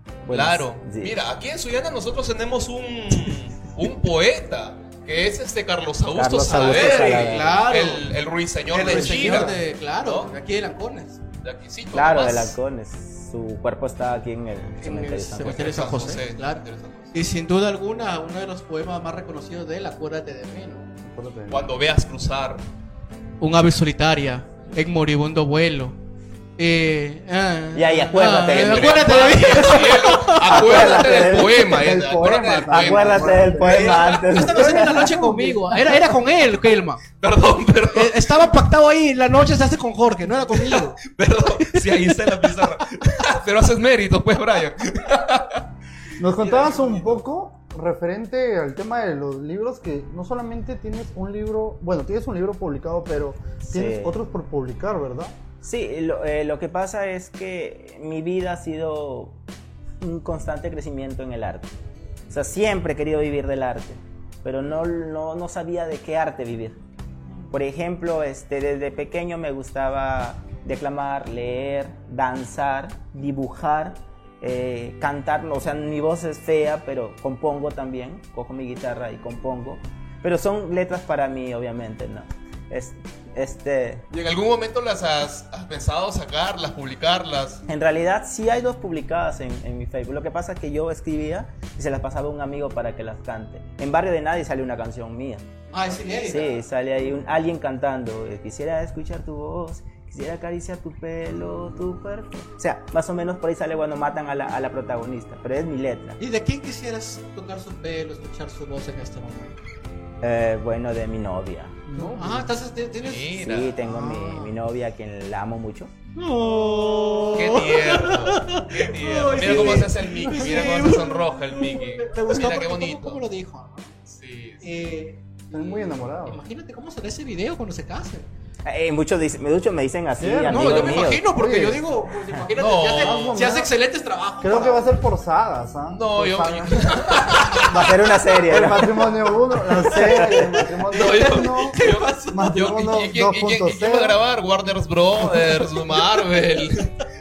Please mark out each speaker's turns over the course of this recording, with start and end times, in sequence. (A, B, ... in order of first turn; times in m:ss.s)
0:00.2-0:01.2 A
0:00.3-0:10.3 B
0:06.1-0:07.6 A
0:06.5-0:08.1 C
0:08.7-0:11.2 C
0:08.9-0:09.5 D
0:11.4-0:12.6 B
0:11.9-0:16.2 A
0:14.8-0:16.6 C
0:15.4-0:17.2 B
0:17.1-0:20.9 C
0:21.0-0:21.7 D
0:21.5-0:22.6 B
0:23.4-0:26.0 C
0:26.6-0:30.8 C
0:27.7-0:29.7 A
0:28.4-0:34.2 B
0:30.5-0:31.7 A
0:30.9-0:36.0 D
0:32.7-0:35.1 A
0:33.6-0:37.0 C
0:37.2-0:38.5 B
0:37.9-0:41.0 C
0:40.6-0:45.6 B
0:46.2-0:55.3 D
0:46.4-0:47.2 B
0:53.6-0:54.2 A
0:55.6-0:59.4 A
1:00.0-1:01.7 A
1:02.3-1:06.8 A
1:07.5-1:24.0 A
1:24.1-1:27.6 B
1:27.7-1:46.2 A
1:35.7-1:36.5 C
1:46.2-1:49.6 C
1:50.2-1:51.8 A
1:51.9-1:52.5 D
1:52.0-1:54.5 C
1:53.0-1:53.8 B
1:53.4-1:55.9 A
1:56.2-2:03.9 C
1:57.4-2:03.2 B
1:59.5-1:59.8 A
2:04.1-2:04.7 B
2:04.6-2:08.3 C
2:05.5-2:06.4 D
2:08.7-2:11.2 A
2:10.2-2:11.8 D
2:10.5-2:14.9 C
2:12.6-2:13.4 B
2:12.6-2:13.7 D
2:14.4-2:21.8 D
2:15.9-2:17.9 B
2:17.7-2:19.2 A
2:19.9-2:20.4 A
2:19.9-2:26.9 B
2:20.9-2:22.6 C
2:22.3-2:24.2 D
2:25.3-2:25.6 D